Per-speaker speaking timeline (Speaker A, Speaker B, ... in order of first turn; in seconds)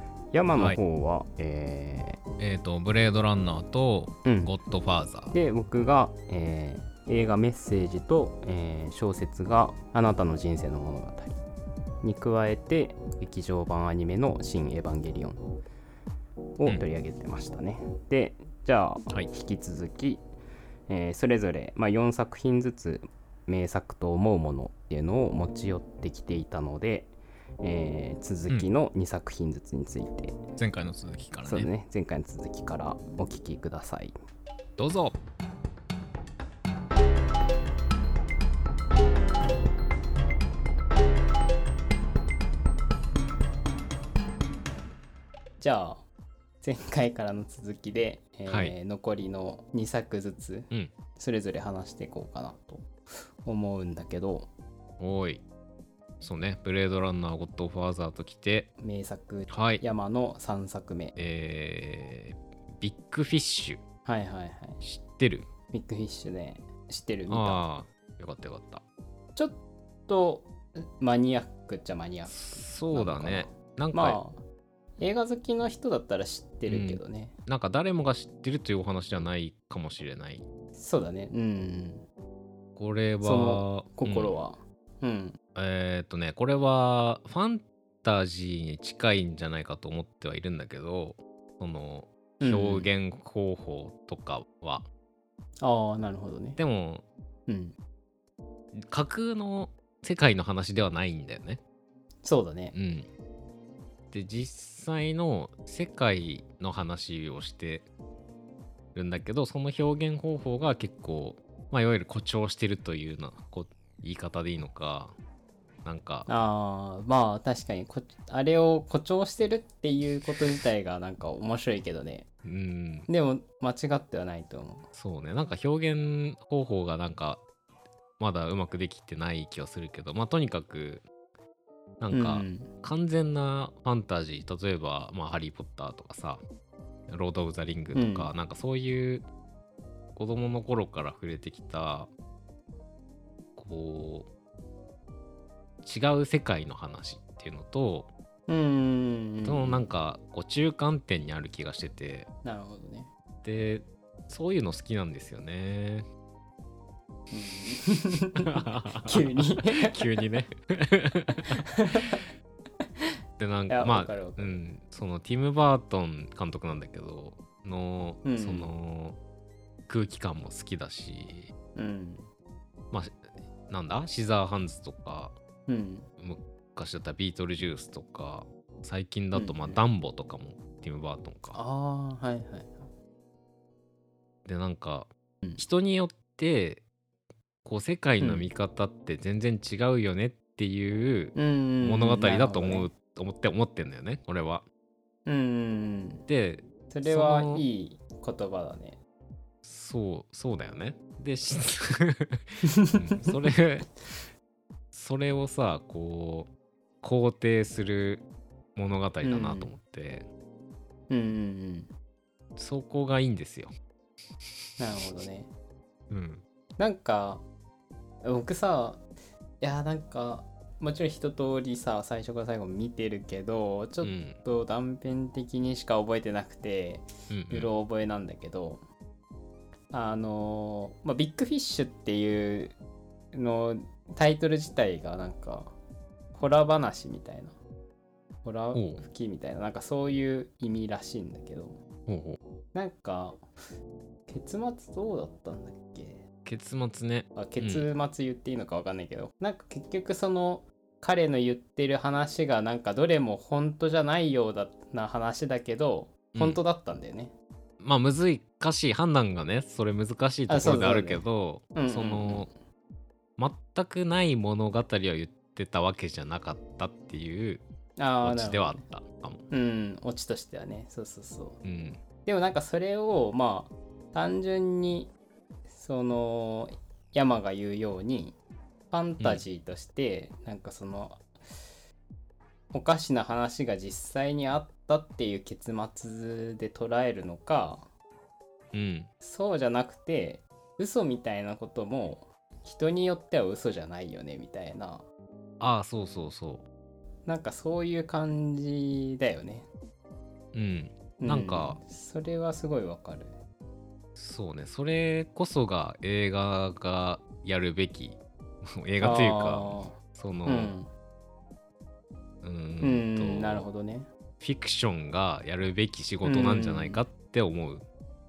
Speaker A: 0.3-2.2, 4.2-4.5, 5.3-11.4, 12.0-15.4, 16.6-20.2, 20.9-30.4, 31.4-34.1, 45.6-46.0, 46.6-52.9, 53.4-54.5, 58.8-61.1, 64.0-64.8, 65.7-67.6, 69.3-74.4, 75.0-77.3, 80.7-82.0, 83.2-85.4, 92.4-92.9, 95.6-96.6, 97.5-97.8, 102.2-102.7, 116.3-122.3, 123.1-124.9, 132.1-132.7, 137.9-138.3, 148.5-149.8, 152.4-153.1, 157.3-160.0, 161.5-162.2, 163.7-164.6, 168.2-168.7, 171.8-172.3, 175.7-176.1, 179.3-179.8, 181.5-182.9, 188.2-188.5, 191.3-192.9, 195.2-196.2, 196.9-199.0, 202.6-203.4, 209.2-209.7, 211.1-211.9, 214.8-215.5, 216.8-217.4, 218.2-219.0, 219.6-228.8, 229.9-232.8, 233.3-235.7, 236.3-237.5, 238.4-241.8, 242.7-243.4, 244.3-246.2, 247.3-257.3, 260.5-262.5, 268.0-268.8, 269.5-271.6, 272.2-275.1, 275.7-278.4, 278.9-281.2, 282.7-287.9, 289.2-295.0, 297.2-299.7, 301.2-303.3, 309.0-310.9, 312.8-314.1, 316.2-317.0
Speaker B: 2.4-5.3, 30.6-31.7, 34.8-35.2, 48.5-48.7, 55.0-55.4, 56.2-58.7, 59.5-59.8, 61.1-63.8, 64.8-65.5, 67.3-68.8, 72.3-74.2, 76.7-80.5, 82.8-84.3, 85.5-94.8, 96.6-97.0, 98.7-101.6, 102.7-103.1, 104.1-107.8, 108.9-115.1, 115.8-116.3, 122.4-123.1, 124.9-127.4, 128.2-131.1, 132.0-136.4, 137.1-139.2, 140.2-142.1, 143.6-144.3, 145.8-148.1, 149.4-152.3, 153.4-156.1, 158.4-161.6, 163.4-169.2, 169.9-171.5, 172.9-173.2, 173.7-175.3, 176.2-181.6, 184.4-186.8, 187.6-194.6, 196.3-197.6, 199.6-203.9, 204.9-206.5, 207.0-208.2, 208.8-210.2, 212.6-213.7, 216.1-216.4, 224.0-224.4, 227.3-227.7, 238.7-239.0, 242.1-242.4, 246.4-247.8, 256.3-256.6, 257.8-262.5, 263.4-267.6, 268.2-269.4, 271.6-272.0, 288.7-289.1, 295.6-296.6, 300.5-301.8, 304.1-310.7, 312.4-313.7, 314.4-317.8